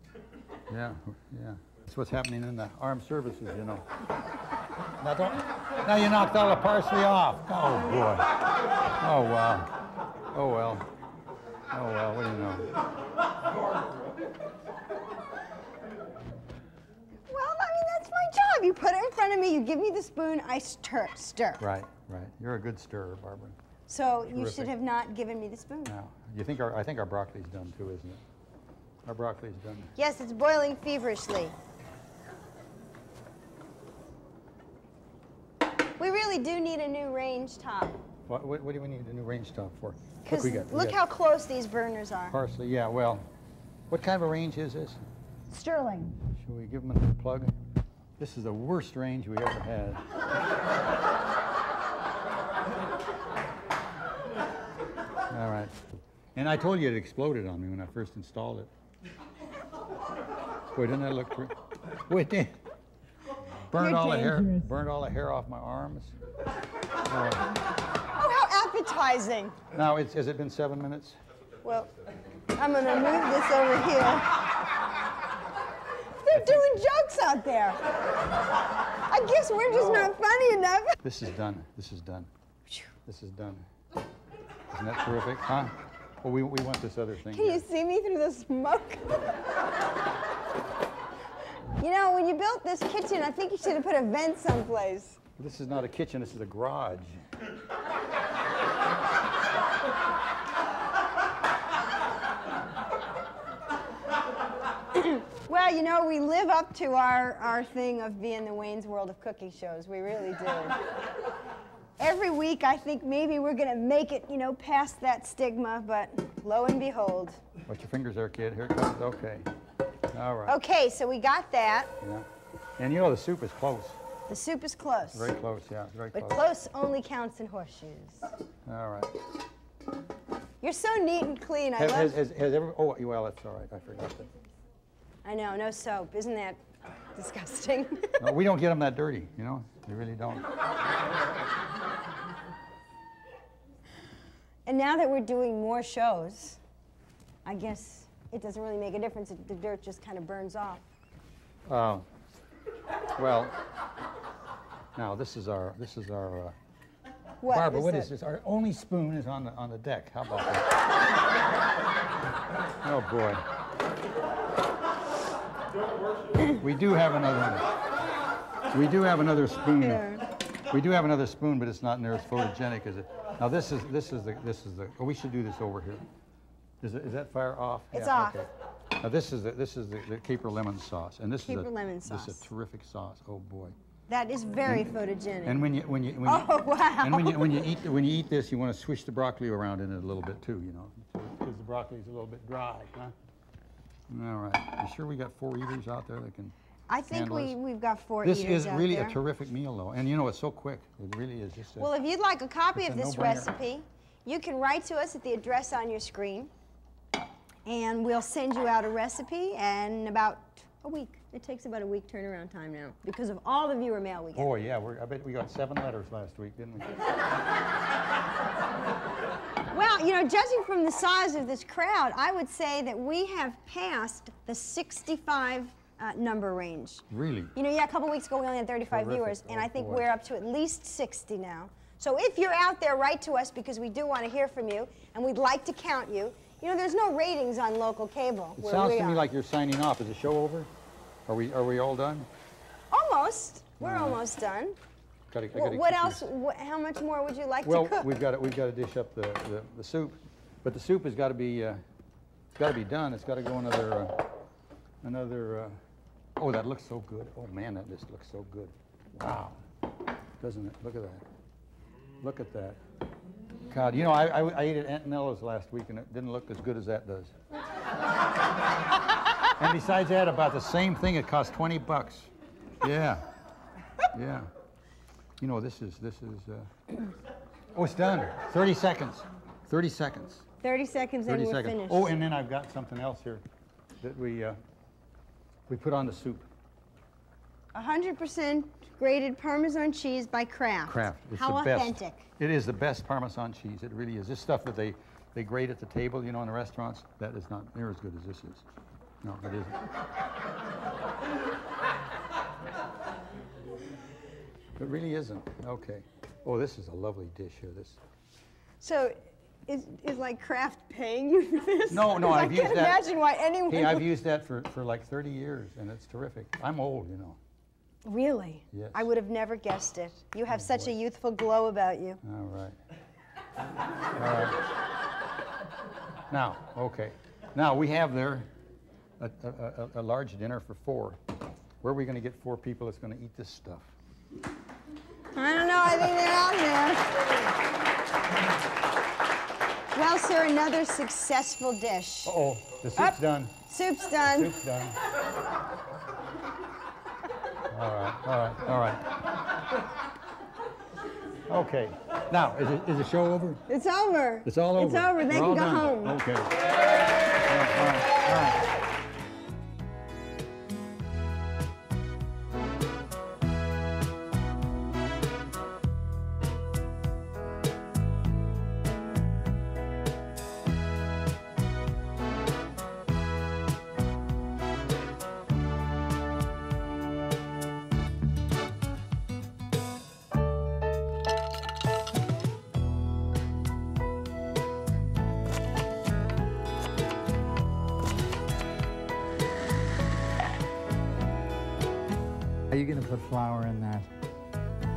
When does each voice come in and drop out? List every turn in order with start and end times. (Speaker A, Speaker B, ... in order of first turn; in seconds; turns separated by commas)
Speaker A: 0.7-3.9, Speaker A: 5.0-8.3, Speaker A: 9.0-9.8, Speaker A: 10.3-10.8, Speaker A: 11.7-12.7, Speaker B: 17.3-21.6, Speaker A: 21.6-23.6, Speaker B: 23.9-25.9, Speaker A: 24.3-24.7, Speaker A: 25.8-28.2, Speaker A: 29.1-29.9, Speaker B: 29.9-31.6, Speaker B: 36.0-38.0, Speaker A: 38.3-41.0, Speaker B: 40.2-42.4, Speaker A: 42.3-43.2, Speaker A: 43.9-45.0, Speaker B: 45.5-46.1, Speaker A: 46.3-47.5, Speaker A: 48.2-50.0, Speaker A: 55.3-55.8, Speaker A: 56.3-58.7, Speaker A: 60.7-62.6, Speaker A: 63.7-66.2, Speaker B: 63.8-64.7, Speaker A: 67.0-67.5, Speaker B: 68.1-69.6, Speaker A: 69.7-71.2, Speaker B: 71.6-71.9, Speaker B: 72.5-74.3, Speaker B: 76.2-77.8, Speaker B: 79.0-81.0, Speaker A: 81.0-82.3, Speaker A: 83.0-83.7, Speaker A: 84.7-87.6, Speaker B: 87.3-89.3, Speaker B: 91.8-95.2, Speaker A: 95.4-97.2, Speaker B: 104.9-110.8, Speaker B: 112.0-117.4, Speaker A: 117.7-119.5, Speaker A: 120.1-120.6, Speaker B: 120.5-121.9, Speaker A: 122.0-122.2, Speaker A: 122.8-124.0, Speaker B: 124.3-125.3, Speaker A: 125.1-126.4, Speaker B: 126.1-128.3, Speaker A: 128.7-129.2, Speaker B: 130.6-132.2, Speaker A: 131.8-134.3, Speaker B: 135.2-136.6, Speaker B: 137.1-138.3, Speaker A: 138.2-140.5, Speaker B: 144.7-146.6, Speaker B: 147.4-150.8, Speaker A: 151.7-152.1, Speaker A: 153.2-153.6, Speaker A: 154.9-156.6, Speaker B: 157.4-158.1, Speaker A: 157.5-160.7, Speaker A: 162.8-163.4, Speaker A: 166.5-167.7, Speaker A: 168.7-176.1, Speaker B: 169.8-170.2, Speaker A: 176.8-183.7, Speaker B: 177.9-178.4, Speaker B: 181.4-182.5, Speaker B: 184.1-185.6, Speaker A: 185.4-186.5, Speaker B: 186.2-187.7, Speaker A: 187.0-193.1, Speaker A: 194.1-196.5, Speaker B: 196.9-199.2, Speaker A: 197.1-197.6, Speaker A: 198.2-201.9, Speaker B: 201.8-206.5, Speaker A: 202.7-203.5, Speaker B: 207.7-214.5, Speaker A: 214.3-217.0, Speaker B: 219.7-239.2, Speaker A: 227.1-227.5, Speaker A: 228.9-230.1, Speaker A: 238.6-240.7, Speaker A: 241.2-242.3, Speaker B: 242.9-244.8, Speaker A: 243.8-244.2, Speaker A: 245.3-246.3, Speaker B: 245.5-248.1, Speaker A: 247.6-251.8, Speaker A: 252.5-254.3, Speaker A: 255.0-255.7, Speaker A: 256.4-259.6, Speaker A: 260.4-261.2, Speaker A: 262.2-262.8, Speaker A: 263.7-267.3, Speaker A: 269.6-272.3, Speaker A: 272.8-273.3, Speaker A: 274.0-274.5, Speaker A: 275.4-277.1, Speaker A: 277.7-280.4, Speaker B: 280.6-282.1, Speaker A: 281.2-283.4, Speaker A: 284.0-284.6, Speaker A: 285.7-286.5, Speaker B: 287.7-292.2, Speaker A: 290.9-298.6, Speaker A: 299.2-299.9, Speaker A: 304.8-308.0, Speaker B: 308.8-314.1, Speaker A: 311.9-313.1, Speaker A: 313.7-317.4, Speaker B: 318.0-322.2, Speaker A: 318.7-319.1, Speaker A: 320.5-320.9, Speaker A: 322.2-322.8, Speaker A: 324.1-324.6, Speaker A: 326.3-328.5, Speaker A: 329.2-331.2, Speaker A: 331.8-333.9, Speaker B: 335.3-337.1, Speaker B: 339.9-342.3, Speaker A: 342.2-343.5, Speaker B: 343.0-344.5, Speaker A: 344.2-345.0, Speaker A: 347.7-349.1, Speaker A: 351.5-353.6, Speaker B: 353.7-356.2, Speaker A: 354.4-356.6, Speaker A: 357.4-358.6, Speaker A: 392.7-394.1